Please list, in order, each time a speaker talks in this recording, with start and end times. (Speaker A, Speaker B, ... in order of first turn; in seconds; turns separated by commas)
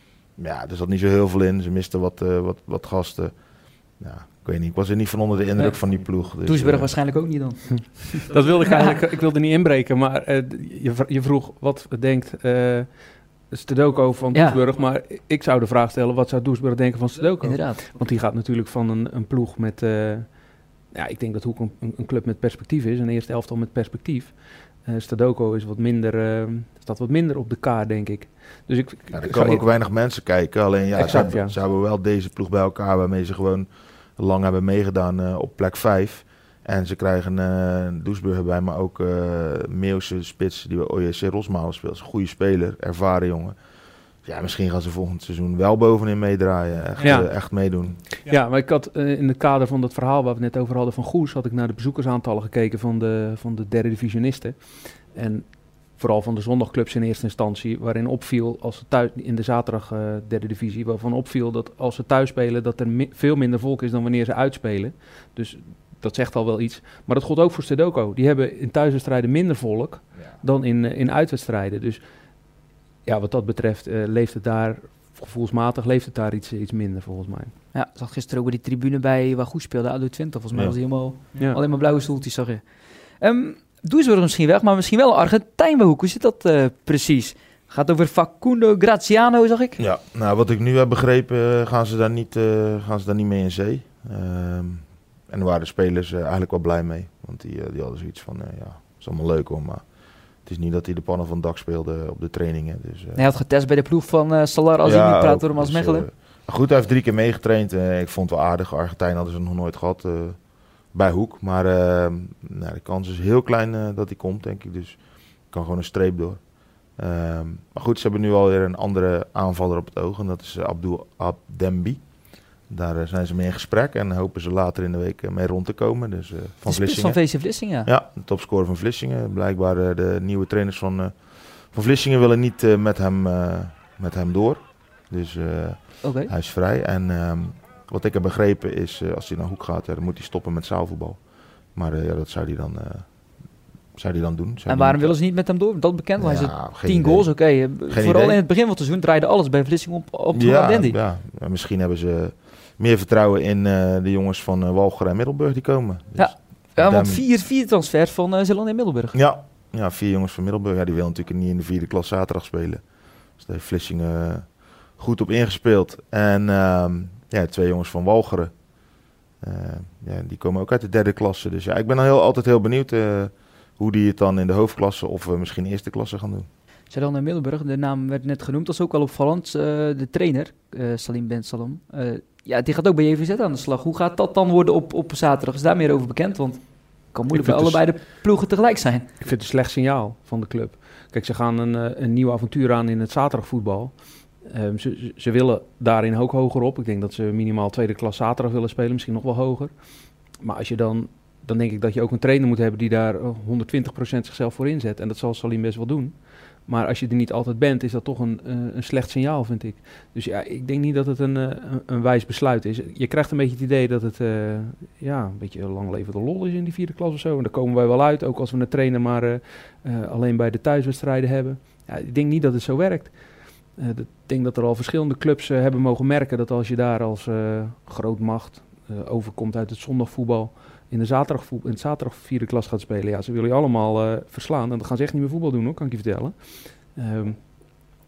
Speaker A: 0.3-6.9, Speaker B: 5.6-9.0, Speaker C: 8.1-29.6, Speaker B: 14.3-14.6, Speaker B: 17.4-17.9, Speaker A: 29.1-43.6, Speaker C: 30.9-31.5, Speaker A: 44.2-48.0, Speaker C: 47.0-72.0, Speaker C: 73.0-77.5, Speaker B: 77.7-89.8, Speaker A: 80.5-80.8, Speaker A: 89.8-103.2, Speaker B: 103.2-106.1, Speaker A: 104.8-145.2, Speaker B: 126.7-127.9, Speaker B: 136.0-136.3, Speaker B: 144.7-150.9, Speaker A: 146.2-148.4, Speaker A: 150.3-157.2, Speaker B: 156.2-159.2, Speaker A: 159.1-168.7, Speaker A: 169.4-176.5, Speaker B: 176.9-189.1, Speaker C: 187.3-188.0, Speaker C: 189.2-199.7, Speaker C: 200.4-237.5